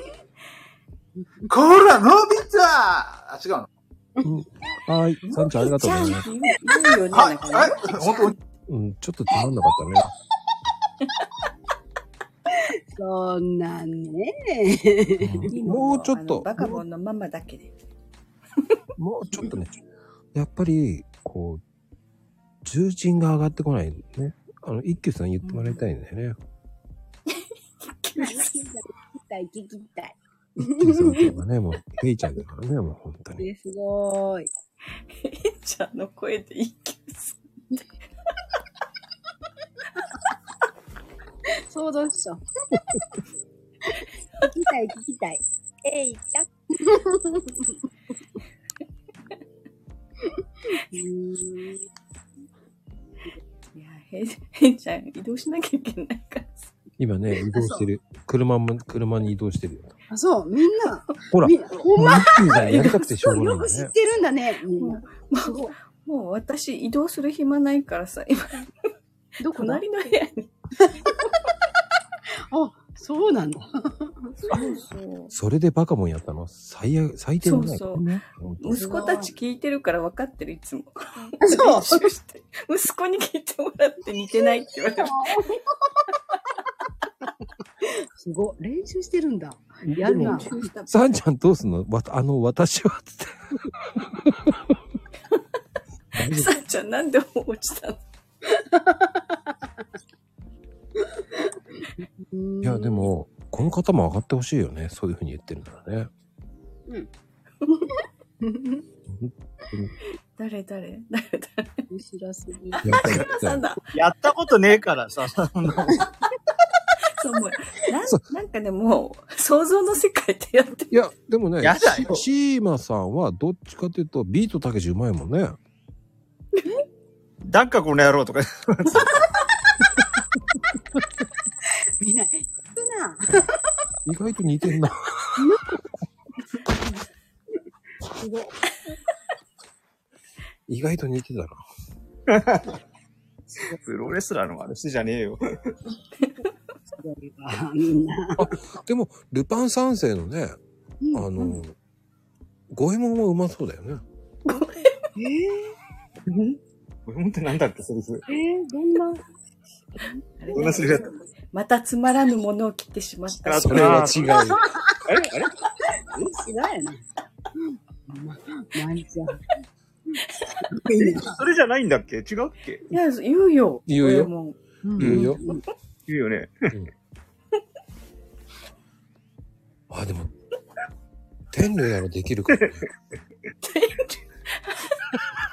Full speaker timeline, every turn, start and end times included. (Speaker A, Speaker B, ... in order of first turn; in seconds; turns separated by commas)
Speaker A: 1.5-3.7, Speaker B: 4.2-6.3, Speaker C: 5.3-8.3, Speaker A: 7.1-8.3, Speaker B: 8.7-10.1, Speaker D: 12.7-15.4, Speaker B: 15.2-16.8, Speaker C: 15.5-17.7, Speaker B: 19.0-19.8, Speaker B: 20.3-21.6, Speaker B: 22.6-26.4, Speaker C: 25.5-25.7, Speaker C: 27.8-28.5, Speaker D: 28.2-31.3, Speaker B: 30.6-33.5, Speaker D: 33.4-34.5, Speaker C: 35.1-37.8, Speaker D: 41.6-42.4, Speaker D: 43.9-47.8, Speaker D: 50.7-51.9, Speaker C: 53.8-56.7, Speaker B: 57.0-60.0, Speaker D: 57.6-57.9, Speaker D: 60.1-65.7, Speaker B: 61.3-63.9, Speaker C: 62.5-63.1, Speaker C: 64.8-68.7, Speaker D: 69.4-69.8, Speaker C: 69.5-70.5, Speaker D: 72.5-74.3, Speaker C: 74.4-75.3, Speaker B: 75.3-78.9, Speaker C: 77.4-78.1, Speaker C: 78.6-85.3, Speaker D: 78.8-79.3, Speaker D: 81.4-82.0, Speaker D: 85.0-85.5, Speaker D: 88.2-90.7, Speaker B: 89.9-94.7, Speaker C: 90.0-91.0, Speaker B: 96.2-96.5, Speaker C: 96.2-98.0, Speaker D: 98.5-99.4, Speaker D: 101.2-103.1, Speaker B: 102.6-106.1, Speaker D: 107.7-108.8, Speaker B: 109.1-109.9, Speaker C: 110.4-111.8, Speaker D: 111.9-113.0, Speaker B: 112.8-113.6, Speaker C: 112.9-113.8, Speaker E: 113.9-116.1, Speaker C: 117.2-121.0, Speaker B: 120.9-125.6, Speaker E: 121.6-122.2, Speaker E: 127.5-129.1, Speaker D: 132.0-133.5, Speaker B: 134.1-135.4, Speaker D: 135.4-135.7, Speaker D: 138.2-138.5, Speaker B: 140.7-141.6, Speaker E: 142.3-142.8, Speaker E: 143.7-145.7, Speaker D: 147.0-148.5, Speaker B: 148.4-150.6, Speaker D: 151.0-151.5, Speaker B: 151.1-151.8, Speaker B: 152.7-154.0, Speaker C: 154.5-154.9, Speaker D: 155.2-155.7, Speaker E: 156.3-158.2, Speaker D: 158.3-159.2, Speaker C: 160.4-164.3, Speaker E: 160.5-161.2, Speaker E: 163.4-164.3, Speaker B: 163.6-164.6, Speaker E: 165.1-165.5, Speaker D: 165.9-167.1, Speaker D: 167.6-169.4, Speaker D: 170.7-171.4, Speaker E: 171.0-172.8, Speaker C: 172.9-175.6, Speaker B: 173.9-174.3, Speaker D: 174.8-175.6, Speaker B: 175.0-175.4, Speaker E: 176.1-176.7, Speaker B: 179.9-180.3, Speaker B: 181.5-182.9, Speaker C: 183.6-185.0